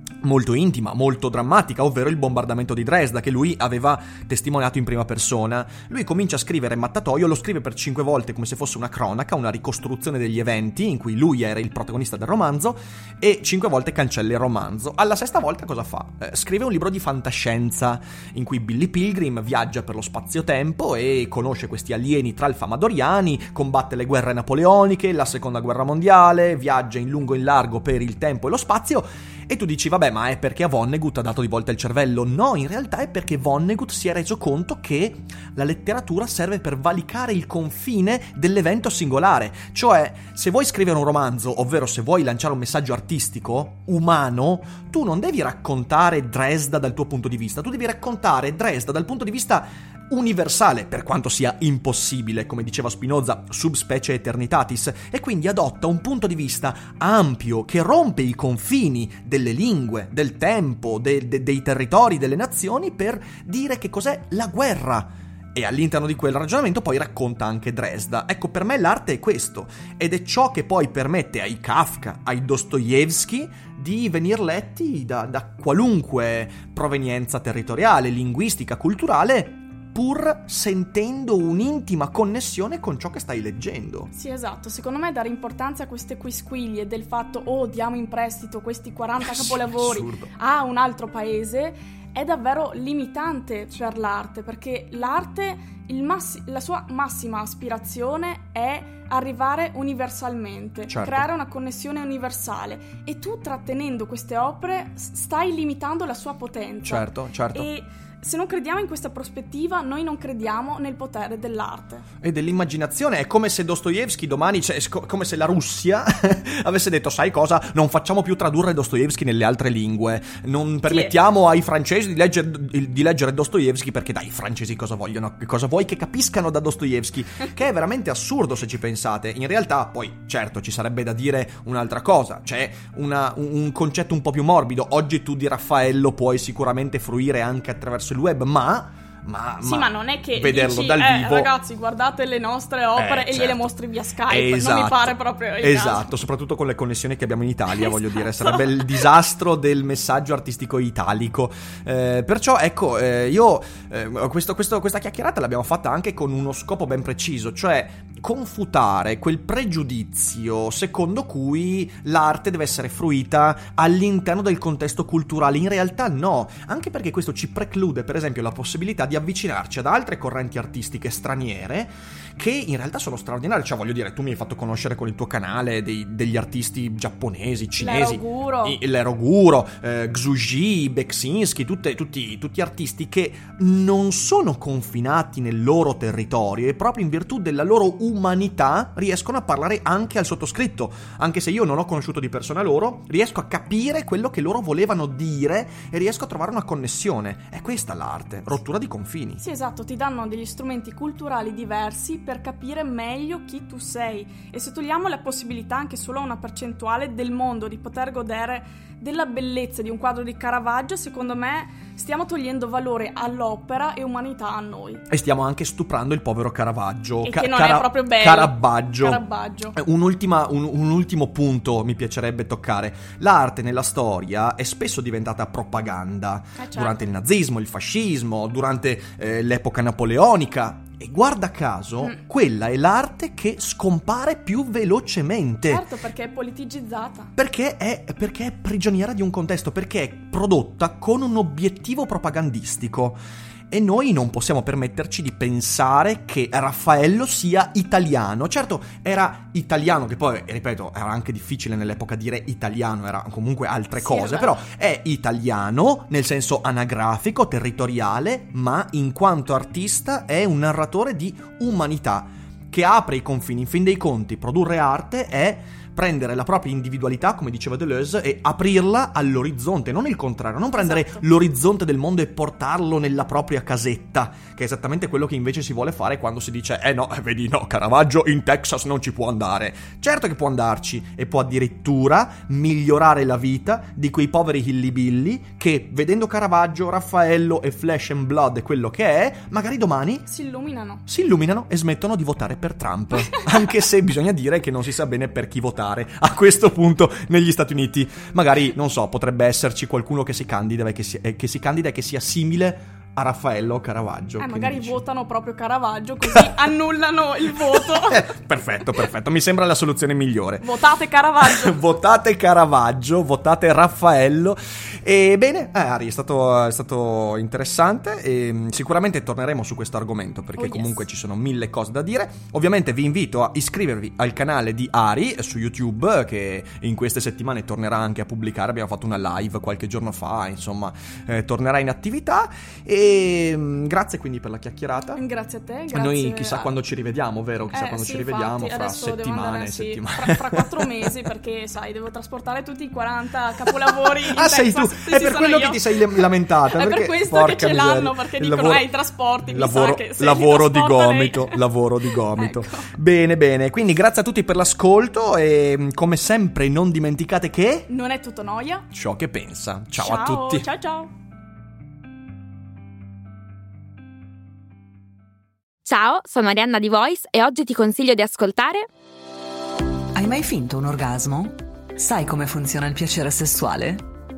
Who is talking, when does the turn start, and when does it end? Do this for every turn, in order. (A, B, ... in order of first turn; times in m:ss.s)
0:00.2-1:24.1 A
1:24.1-1:52.0 B
1:29.2-1:30.3 A
1:40.9-1:41.3 A
1:46.8-1:47.7 A
1:52.2-2:21.5 A
2:00.9-2:01.2 B
2:19.6-2:26.2 B
2:23.0-2:23.7 A
2:24.3-3:19.4 A
2:27.7-2:29.1 B
2:57.8-2:58.8 B
3:19.4-3:35.0 B
3:35.1-3:39.2 A
3:37.2-3:39.8 B
3:39.7-3:55.8 A
3:46.6-3:47.0 B
3:55.6-3:57.3 B
3:57.4-4:03.2 A
4:03.7-4:50.3 A
4:14.0-4:14.6 B
4:30.7-4:31.2 B
4:50.3-4:51.0 B
4:51.1-5:05.0 A
5:04.4-5:08.3 B
5:07.8-5:10.7 A
5:10.6-5:11.8 B
5:11.4-5:35.2 A
5:20.6-5:21.0 B
5:35.2-5:36.8 B
5:35.9-5:41.1 A
5:37.7-5:51.6 B
5:43.9-5:48.9 A
5:49.4-5:57.9 A
5:52.2-5:52.9 B
5:57.9-5:58.8 B
5:58.9-6:00.7 A
5:59.9-6:01.1 B
6:05.8-6:08.8 C
6:10.2-6:14.0 D